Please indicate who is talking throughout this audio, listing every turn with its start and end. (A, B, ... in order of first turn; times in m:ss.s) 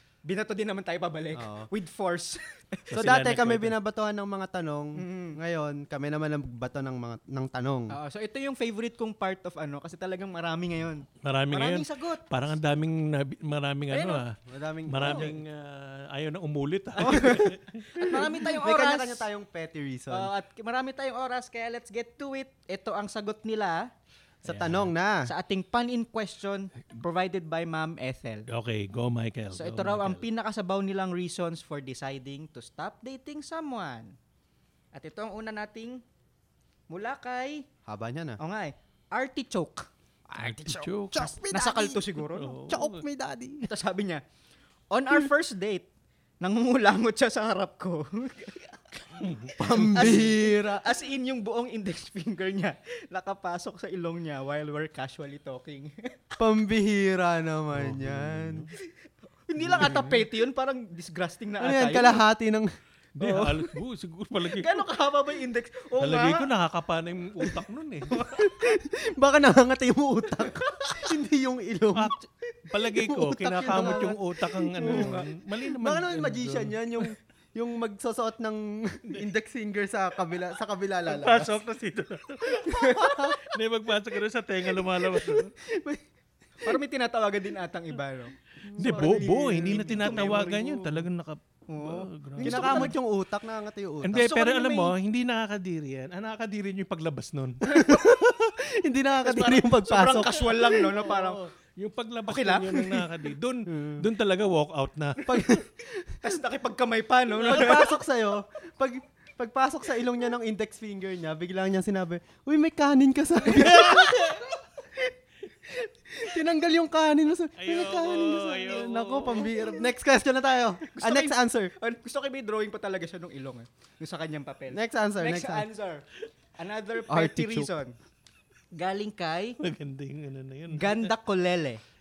0:00.2-0:02.9 A
0:01.3-0:01.7 B
0:02.9-0:03.7 C
0:02.9-0:07.9 B
0:05.0-0:05.4 A
0:07.9-0:12.2 A
0:11.2-0:14.4 C
0:13.9-0:14.2 A
0:14.4-0:15.4 B
0:14.9-0:18.3 C
0:17.0-0:19.3 A
0:18.1-0:20.3 B
0:20.1-0:23.9 A
0:24.4-0:25.3 B
0:24.4-0:24.9 C
0:25.2-0:28.5 A
0:28.5-0:30.2 C
0:29.5-0:34.1 A
0:34.9-0:36.0 A
0:36.9-0:37.6 A
0:37.8-0:38.4 B
0:38.4-0:39.9 A
0:40.3-0:42.2 B
0:40.4-0:41.3 C
0:41.5-0:42.6 A
0:42.3-0:43.0 C
0:42.7-0:43.7 B
0:43.6-0:44.2 A
0:44.9-0:45.9 A
0:46.4-0:49.3 A
0:49.2-0:50.3 C
0:49.6-0:50.9 B
0:49.9-0:56.1 A
0:56.4-0:58.7 B
0:57.7-0:58.7 C
0:59.5-1:02.2 A
0:59.6-1:00.3 B
1:01.6-1:02.7 B
1:03.2-1:03.7 A
1:03.2-1:04.8 C
1:04.5-1:06.5 A
1:06.0-1:08.3 C
1:08.2-1:12.1 B
1:11.9-1:17.1 C
1:12.9-1:21.6 B
1:13.7-1:14.0 A
1:14.8-1:15.3 A
1:21.0-1:25.5 C
1:22.6-1:23.3 A
1:23.0-1:23.4 B
1:25.1-1:25.5 A
1:25.5-1:26.0 B
1:26.6-1:31.0 A
1:28.6-1:30.4 B
1:28.8-1:32.9 C
1:31.7-1:32.9 A
1:32.4-1:34.3 B
1:34.0-1:37.7 C
1:34.1-1:34.9 A
1:37.7-1:40.9 B
1:39.2-1:41.4 A
1:40.7-1:45.6 C
1:42.3-1:43.1 A
1:43.7-1:44.1 B
1:45.2-1:46.2 B
1:46.2-1:48.0 A
1:47.4-1:55.0 B
1:53.5-1:54.5 C
1:55.7-2:01.7 B
1:57.6-1:59.6 C
2:00.9-2:06.0 A
2:04.7-2:05.7 B
2:06.6-2:07.9 A
2:07.1-2:07.7 B
2:08.7-2:09.6 A
2:09.6-2:11.1 C
2:10.7-2:11.8 A